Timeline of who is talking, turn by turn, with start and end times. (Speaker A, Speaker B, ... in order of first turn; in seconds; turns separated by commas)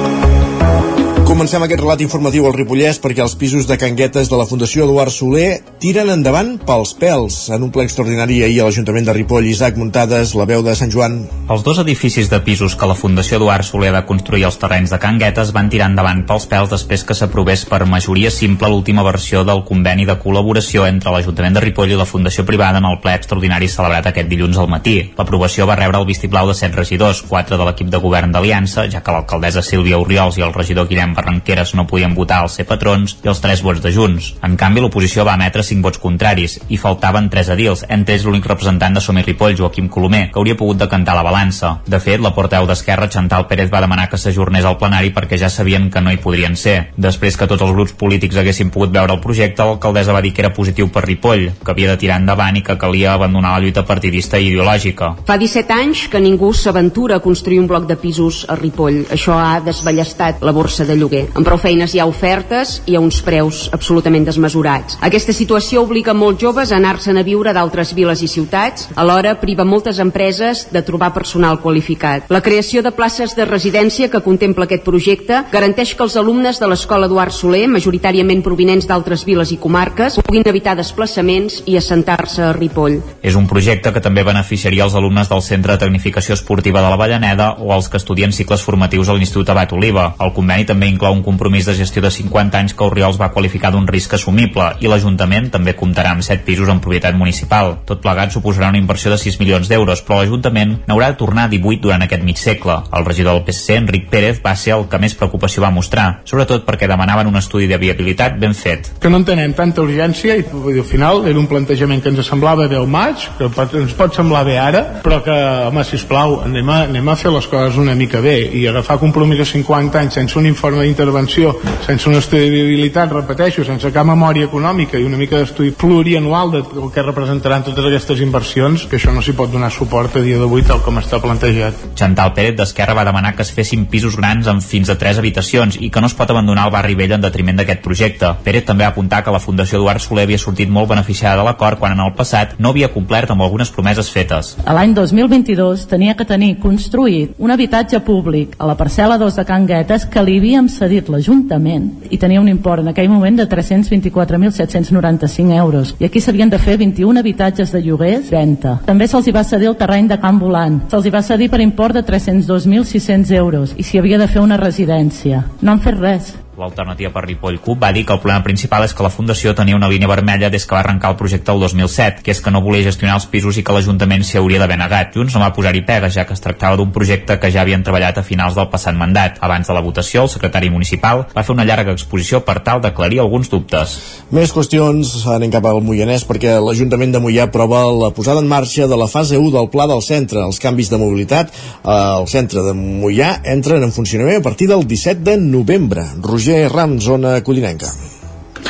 Speaker A: 1.2-11.3, Speaker B: 11.5-55.2, Speaker C: 55.3-83.0, Speaker B: 83.2-108.9, Speaker D: 109.0-131.8, Speaker B: 131.9-144.6, Speaker E: 144.6-166.4, Speaker B: 166.6-184.0, Speaker A: 184.3-197.9